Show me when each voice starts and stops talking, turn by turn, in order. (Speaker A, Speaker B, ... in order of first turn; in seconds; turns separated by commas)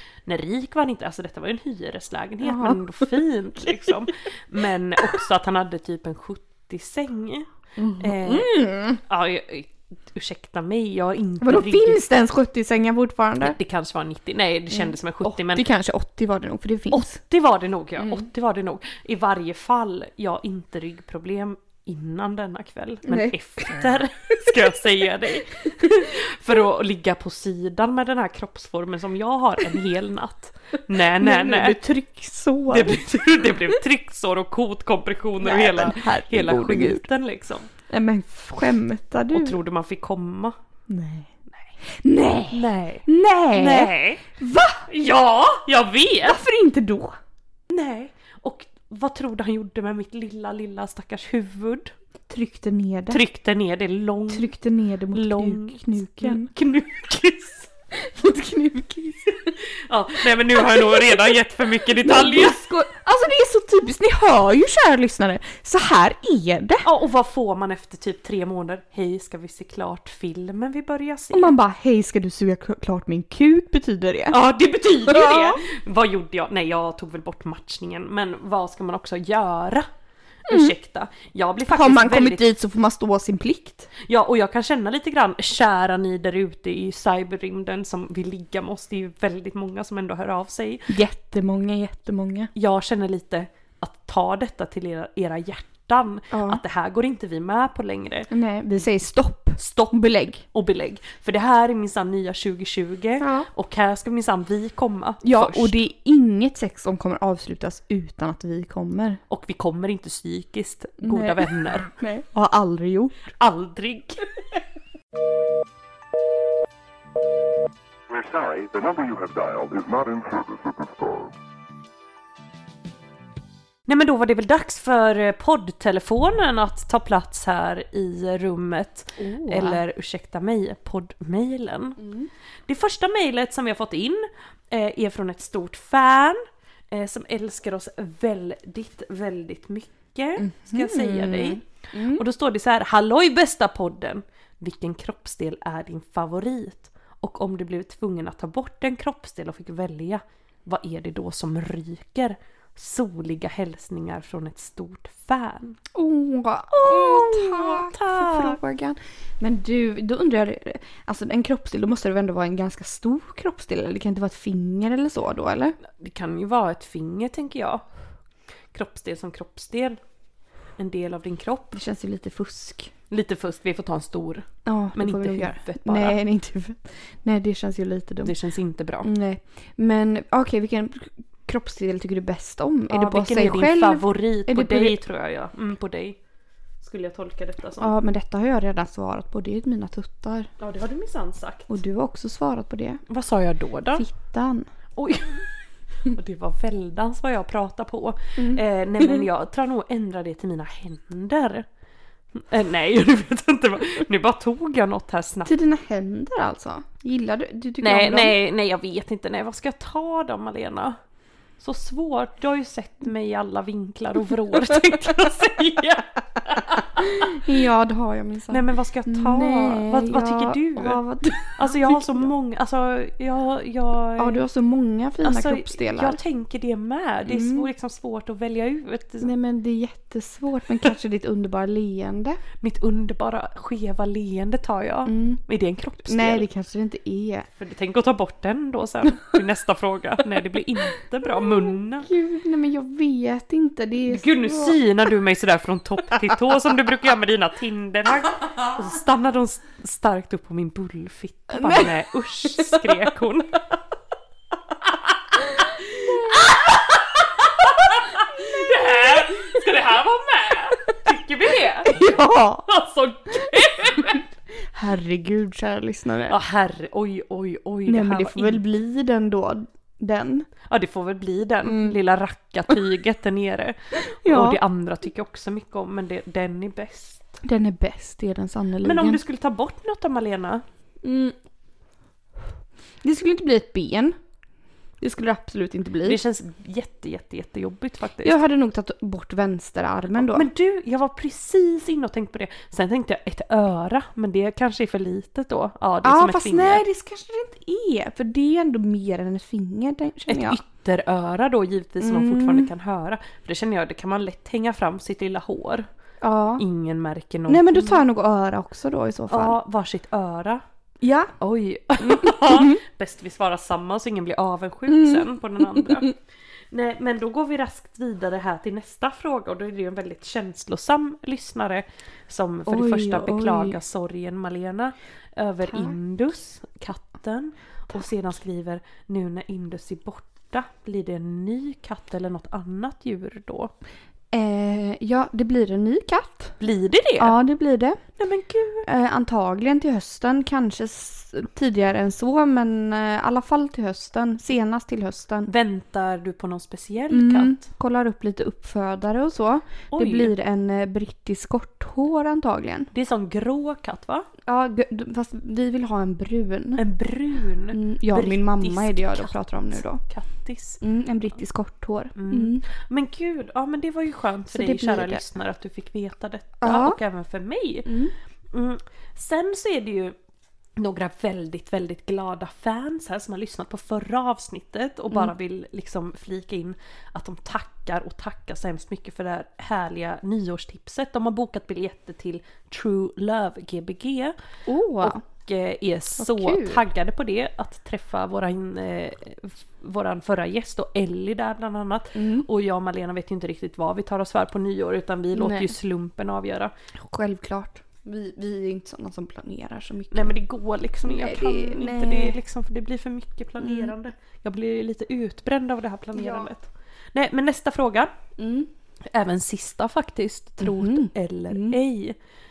Speaker A: 0.2-12.0, Speaker B: 2.4-2.8, Speaker B: 7.8-9.0, Speaker B: 11.4-13.6, Speaker A: 13.4-15.6, Speaker B: 14.7-17.1, Speaker A: 16.9-31.8, Speaker B: 23.1-23.3, Speaker B: 25.6-25.9, Speaker B: 31.1-33.1, Speaker A: 32.7-37.7, Speaker B: 35.4-37.0, Speaker B: 37.9-39.5, Speaker A: 39.3-40.5, Speaker B: 40.9-41.3, Speaker B: 42.0-44.9, Speaker A: 42.5-44.2, Speaker A: 44.9-46.4, Speaker B: 46.2-47.1, Speaker A: 47.7-51.9, Speaker B: 52.3-53.2, Speaker A: 53.1-54.5, Speaker B: 54.3-56.5, Speaker A: 55.1-57.7, Speaker B: 57.9-59.6, Speaker A: 59.6-62.6, Speaker B: 60.7-61.0, Speaker B: 62.0-66.9, Speaker A: 66.8-71.5, Speaker B: 71.3-74.4, Speaker A: 74.3-79.9, Speaker B: 75.1-75.6, Speaker A: 80.5-82.5, Speaker B: 81.7-83.9, Speaker A: 84.0-90.9, Speaker B: 90.9-92.5, Speaker A: 92.5-98.3, Speaker B: 96.3-96.6, Speaker B: 98.3-100.4, Speaker A: 99.6-105.8, Speaker B: 103.2-103.5, Speaker B: 105.2-109.2, Speaker A: 109.3-111.9, Speaker B: 111.0-113.3, Speaker A: 113.3-114.2, Speaker C: 118.1-121.3, Speaker A: 123.9-132.0, Speaker B: 129.2-129.8, Speaker B: 132.0-132.3, Speaker A: 132.7-136.4, Speaker A: 136.9-155.8, Speaker B: 140.4-142.2, Speaker B: 155.9-165.8, Speaker A: 156.7-158.6, Speaker A: 165.8-167.8, Speaker A: 168.7-170.0, Speaker A: 170.8-171.8, Speaker B: 171.7-172.9, Speaker A: 173.1-176.2, Speaker B: 174.7-178.3, Speaker A: 178.2-179.1, Speaker B: 179.0-185.0, Speaker A: 182.9-186.2, Speaker A: 186.8-187.9, Speaker B: 187.8-190.5, Speaker A: 190.6-191.7, Speaker B: 191.7-193.0, Speaker A: 193.1-194.0, Speaker B: 193.9-194.7, Speaker A: 195.0-195.4, Speaker A: 196.0-201.7, Speaker A: 202.3-205.5, Speaker B: 205.4-208.3, Speaker A: 207.8-211.0, Speaker A: 211.6-217.4, Speaker B: 217.0-222.2, Speaker A: 218.5-224.4, Speaker B: 224.2-226.2, Speaker A: 225.2-229.3, Speaker B: 227.3-227.7, Speaker B: 229.2-232.4, Speaker A: 232.6-236.4, Speaker B: 235.1-235.4, Speaker B: 236.1-237.5, Speaker A: 237.6-242.1, Speaker B: 241.3-244.8, Speaker A: 244.1-253.6, Speaker B: 251.5-251.9, Speaker A: 254.8-255.1, Speaker A: 255.7-262.1, Speaker B: 261.8-262.6, Speaker A: 262.7-264.2, Speaker B: 264.7-266.4, Speaker A: 266.3-268.6, Speaker B: 267.9-270.4, Speaker A: 270.6-277.4, Speaker B: 271.6-271.9, Speaker B: 274.2-274.6, Speaker B: 277.4-279.2, Speaker A: 278.8-280.6, Speaker B: 281.0-281.3, Speaker B: 283.0-284.2, Speaker B: 285.0-286.2, Speaker A: 286.0-288.4, Speaker B: 288.2-290.5, Speaker A: 290.2-296.8, Speaker B: 296.0-300.6, Speaker A: 300.3-305.9, Speaker B: 302.0-302.7, Speaker B: 306.2-306.6, Speaker A: 306.6-308.0, Speaker B: 307.5-309.6, Speaker A: 309.3-310.6, Speaker B: 311.0-311.3, Speaker A: 311.4-316.1, Speaker B: 312.0-312.8, Speaker B: 314.9-316.1, Speaker A: 316.7-333.7, Speaker B: 322.6-323.8, Speaker B: 334.3-336.6, Speaker A: 336.6-337.4, Speaker B: 337.2-338.0, Speaker A: 338.2-338.9, Speaker B: 338.9-345.5, Speaker A: 345.4-347.6, Speaker B: 347.1-352.9, Speaker A: 349.9-350.3, Speaker A: 352.9-354.3, Speaker B: 354.5-356.8, Speaker A: 356.8-360.8, Speaker B: 357.7-360.0, Speaker B: 360.8-362.6, Speaker A: 362.1-367.9, Speaker B: 364.5-365.2, Speaker B: 366.6-367.0, Speaker A: 368.5-370.1, Speaker A: 370.8-384.3, Speaker B: 384.7-385.2, Speaker A: 385.0-396.7, Speaker B: 386.2-386.8, Speaker B: 392.2-392.4, Speaker B: 395.4-395.7, Speaker B: 397.1-400.3, Speaker A: 400.1-408.1, Speaker B: 401.0-402.4, Speaker B: 403.6-403.9, Speaker B: 406.1-406.4, Speaker B: 408.4-408.7, Speaker A: 409.1-412.1